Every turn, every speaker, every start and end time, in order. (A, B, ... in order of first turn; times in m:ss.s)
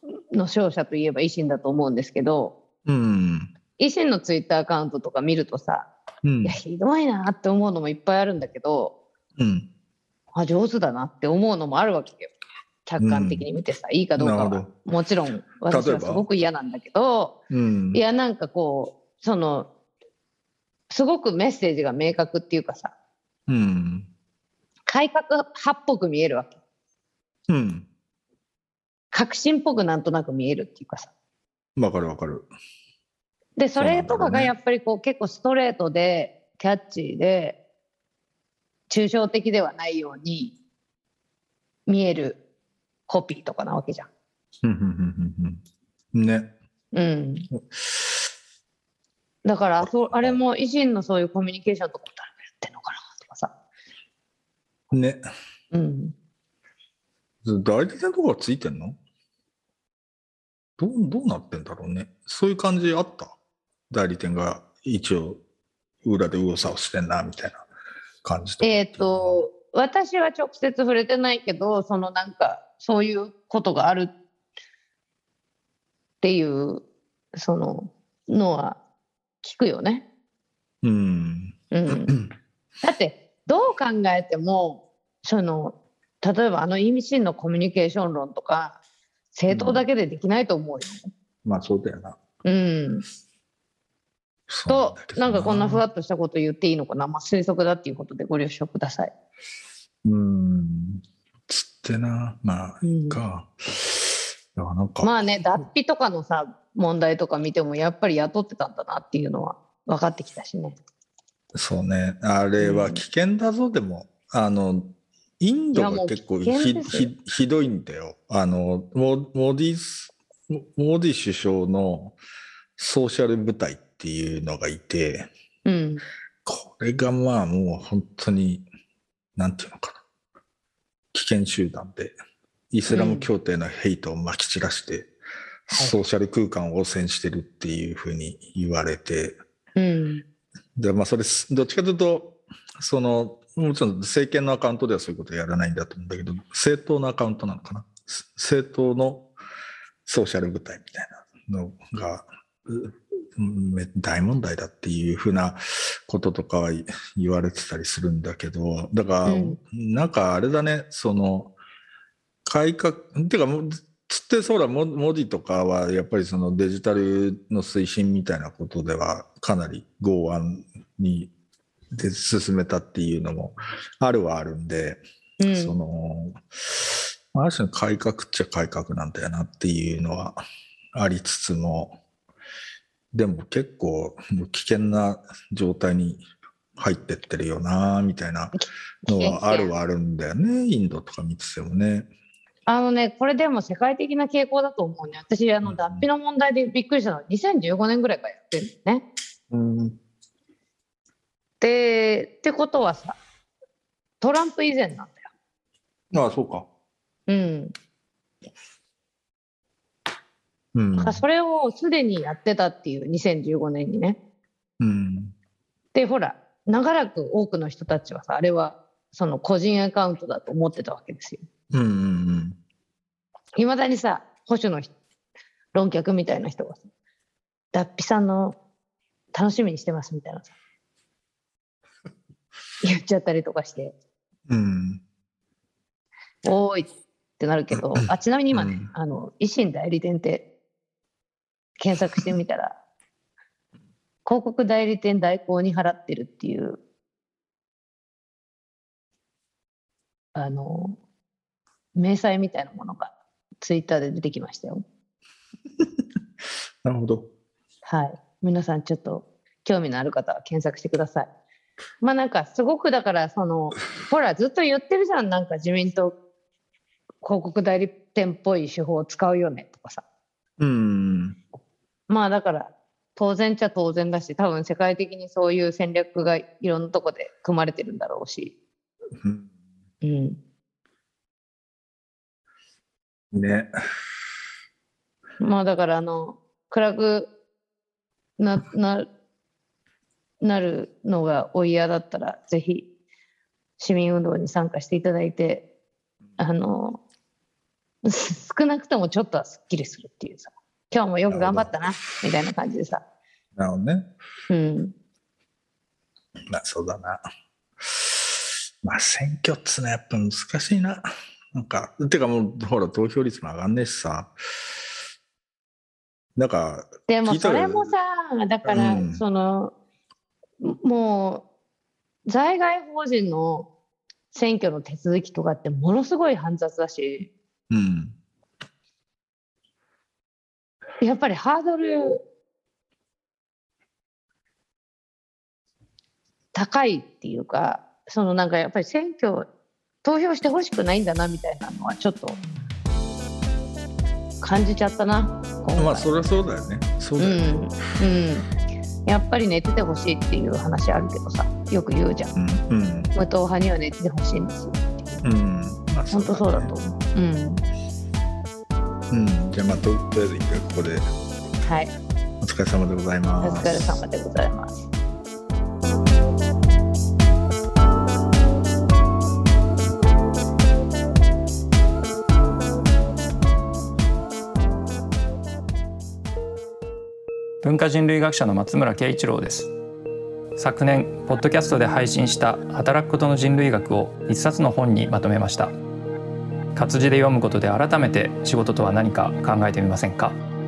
0:00.3-0:02.5 A
0:02.8-0:03.5 B
0:03.8-0:05.9 A
0:06.2-0:06.6 B
0:06.4-0:08.9 A
0:09.4-0:09.7 B
0:10.3-0:12.3 A
0:12.8-0:17.4 A
0:13.0-0:13.5 B
0:14.2-0:14.7 B
0:15.7-0:16.2 B
0:17.5-0:18.0 B
0:17.9-0:19.7 A
0:20.9-0:22.9 A
0:23.5-0:24.1 B
0:24.9-0:26.5 A
0:27.5-0:27.9 B
0:29.1-0:31.1 A
0:31.8-0:32.5 B
0:33.6-0:37.6 A
0:33.8-0:34.5 B
0:38.9-0:40.5 A
0:41.9-0:42.4 A
0:43.1-0:44.1 A
0:44.6-0:45.6 B
0:46.1-0:46.5 B
0:46.9-0:47.5 A
0:47.5-0:48.1 B
0:49.4-0:53.5 A
0:49.8-0:50.4 B
0:54.9-0:55.2 B
0:55.7-0:56.1 A
0:57.4-0:59.0 B
1:00.8-1:03.4 B
1:03.9-1:05.4 B
1:06.0-1:07.6 B
1:08.2-1:09.4 B
1:08.6-1:14.1 A
1:16.2-1:16.8 A
1:17.3-1:18.8 A
1:19.4-1:20.0 A
1:20.8-1:22.3 B
1:21.7-1:22.1 A
1:22.8-1:28.8 A
1:29.3-1:31.1 A
1:29.5-1:29.8 B
1:31.4-1:32.2 B
1:32.4-1:33.0 A
1:34.5-1:35.8 B
1:34.7-1:39.1 A
1:40.0-1:45.1 B
1:42.8-1:43.2 A
1:45.0-1:50.8 A
1:51.5-2:02.2 B
1:52.6-1:53.0 A
1:55.7-1:57.1 A
2:02.8-2:05.3 B
2:05.6-2:06.0 A
2:06.4-2:08.6 B
2:09.4-2:10.0 B
2:11.1-2:12.2 B
2:12.7-2:15.1 B
2:12.9-2:13.3 A
2:15.7-2:19.4 B
2:19.8-2:20.2 A
2:20.8-2:29.3 B
2:30.0-2:41.5 B
2:39.2-2:39.6 A
2:42.4-2:51.3 B
2:51.9-3:00.4 B
2:55.4-2:55.8 A
3:00.9-3:02.0 B
3:03.1-3:06.2 B
3:06.8-3:08.5 B
3:08.5-3:09.7 A
3:09.1-3:12.1 B
3:12.6-3:19.0 A
3:15.6-3:16.0 B
3:19.5-3:20.0 B
3:21.6-3:23.2 A
3:24.2-3:25.3 A
3:26.1-3:26.7 B
3:27.3-3:27.7 A
3:30.7-3:31.2 B
3:31.0-3:34.2 A
3:34.8-3:35.3 B
3:35.9-3:41.4 A
3:41.7-3:42.6 B
3:43.6-3:44.9 A
3:45.7-3:46.8 A
3:47.7-3:48.6 A
3:49.3-3:50.5 A
3:52.8-3:53.9 A
3:54.5-3:55.0 B
3:56.4-4:00.4 A
3:57.7-3:58.9 B
4:01.8-4:02.8 A
4:04.2-4:06.8 A
4:10.3-4:11.0 A
4:11.9-4:14.8 A
4:16.8-4:17.3 B
4:17.8-4:21.3 A
4:22.0-4:26.1 A
4:27.2-4:30.0 A
4:30.6-4:31.4 B
4:32.1-4:38.5 A
4:39.2-4:39.5 B
4:40.0-4:40.4 A
4:43.3-4:43.7 B
4:45.4-4:47.3 A
4:48.4-4:49.0 A
4:50.4-4:52.8 A
4:53.8-4:55.6 A
4:56.4-4:57.0 A
4:58.0-5:03.0 A
5:01.3-5:02.0 B
5:03.6-5:04.1 B
5:04.5-5:04.9 A
5:06.5-5:07.2 B
5:07.9-5:14.3 B
5:16.4-5:17.9 B
5:17.1-5:19.7 A
5:18.6-5:19.2 B
5:20.6-5:21.4 A
5:22.3-5:23.7 A
5:24.3-5:27.3 A
5:27.7-5:28.2 B
5:31.0-5:32.2 A
5:36.5-5:39.5 A
5:40.0-5:42.4 A
5:44.4-5:46.1 A
5:45.8-5:47.6 B
5:47.2-5:48.4 A
5:49.0-5:52.3 A
5:52.3-5:53.1 B
5:53.1-5:55.2 A
5:55.2-5:56.8 B
5:56.1-5:57.6 A
5:59.1-6:01.1 B
6:01.6-6:01.9 A
6:02.4-6:04.0 B
6:03.4-6:04.9 A
6:17.6-6:19.7 C
6:20.6-6:25.7 C
6:26.7-6:30.4 C